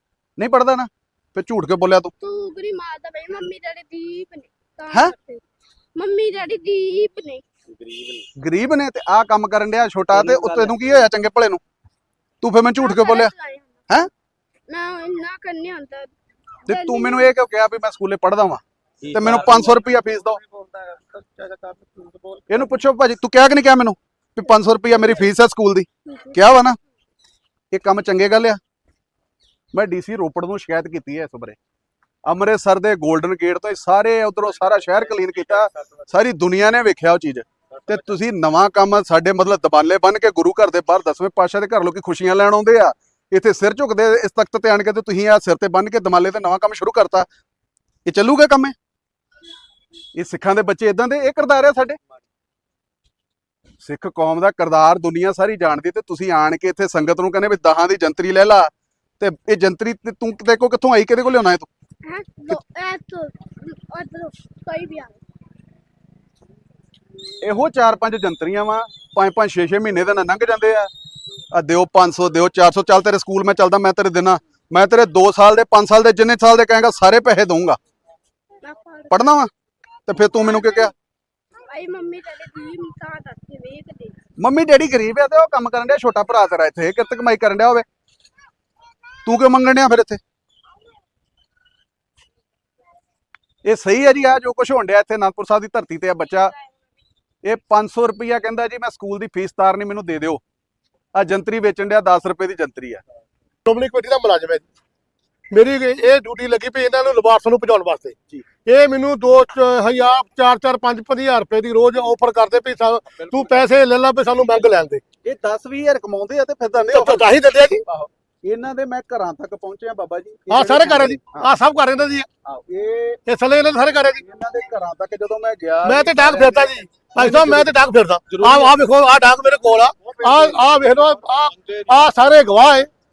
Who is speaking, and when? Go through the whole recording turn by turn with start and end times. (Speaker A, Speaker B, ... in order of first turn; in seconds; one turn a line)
Speaker A: 0.4-2.1
Speaker B: 2.2-5.4
Speaker B: 6.0-7.5
Speaker C: 7.7-8.3
Speaker A: 8.4-11.6
Speaker C: 10.1-11.0
Speaker A: 12.4-13.3
Speaker B: 12.8-13.8
Speaker B: 14.7-16.1
Speaker B: 16.7-17.4
Speaker A: 16.7-18.6
Speaker C: 19.0-22.8
Speaker A: 19.1-20.4
Speaker A: 22.5-26.8
Speaker B: 26.1-26.4
Speaker A: 27.7-28.6
Speaker A: 29.7-31.6
Speaker A: 32.3-47.3
Speaker C: 34.4-36.2
Speaker C: 37.7-38.2
Speaker A: 48.1-48.8
Speaker A: 50.1-52.0
Speaker A: 53.8-61.7
Speaker B: 62.1-65.2
Speaker A: 67.4-70.9
Speaker A: 71.5-77.8
Speaker B: 78.6-79.3
Speaker A: 79.1-79.5
Speaker A: 80.1-80.9
Speaker B: 80.2-80.9
Speaker B: 81.7-84.2
Speaker A: 84.4-87.8
Speaker A: 89.3-90.2
Speaker A: 93.6-96.5
Speaker A: 97.4-100.4
Speaker A: 101.1-103.0
Speaker D: 103.7-104.7
Speaker D: 105.5-115.0
Speaker A: 113.2-113.6
Speaker A: 115.2-121.5
Speaker D: 116.9-117.8
Speaker D: 120.5-122.3
Speaker A: 122.5-123.2
Speaker D: 123.3-124.2
Speaker A: 124.0-127.7
Speaker D: 125.8-132.9
Speaker A: 128.3-128.8
Speaker A: 129.6-132.1